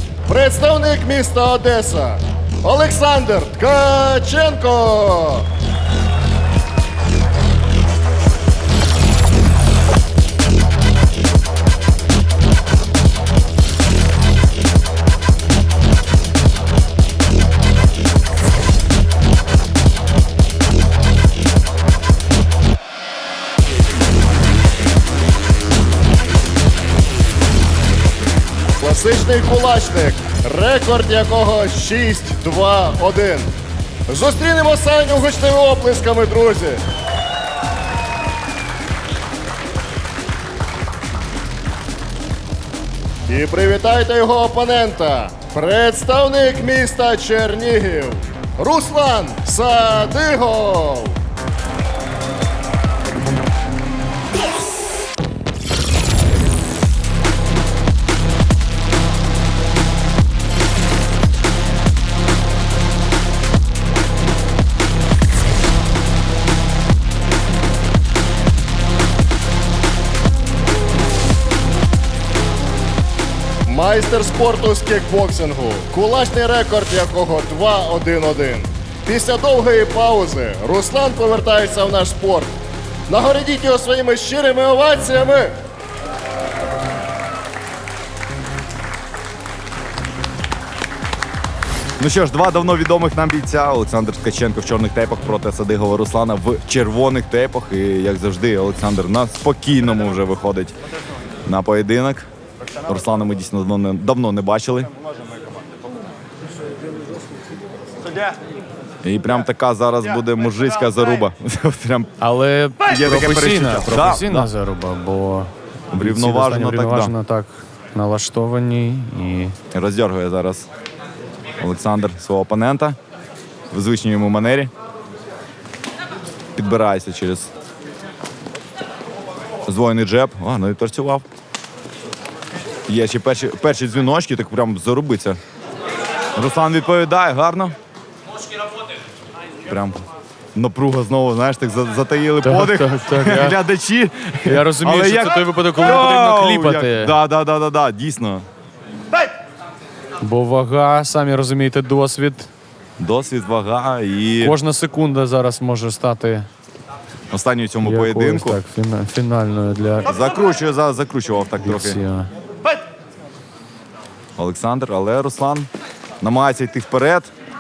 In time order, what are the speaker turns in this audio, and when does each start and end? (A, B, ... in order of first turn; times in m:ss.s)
0:00.3-0:05.5 A
0:28.8-0:33.5 A
0:34.1-0:36.8 A
0:43.3-0:51.2 A
1:13.7-1:22.6 A
1:23.1-1:25.6 A
1:32.0-1:40.7 B
1:41.5-1:42.3 B
1:42.8-1:44.9 B
1:49.0-1:52.1 B
1:52.2-1:59.6 C
1:52.9-1:54.5 B
1:55.9-1:57.1 B
1:59.7-2:00.7 B
2:01.6-2:03.0 B
2:03.7-2:04.7 B
2:06.6-2:07.5 B
2:09.7-2:11.2 B
2:12.9-2:15.4 B
2:16.4-2:17.8 B
2:19.7-2:20.0 B
2:20.6-2:28.5 B
2:22.4-2:23.6 C
2:24.5-2:27.1 C
2:30.2-2:32.5 C
2:33.0-2:34.6 B
2:34.4-2:36.5 C
2:37.3-2:38.6 B
2:37.8-2:40.1 C
2:40.1-2:42.0 B
2:41.6-2:42.3 C
2:44.4-2:45.7 B
2:46.2-2:47.3 B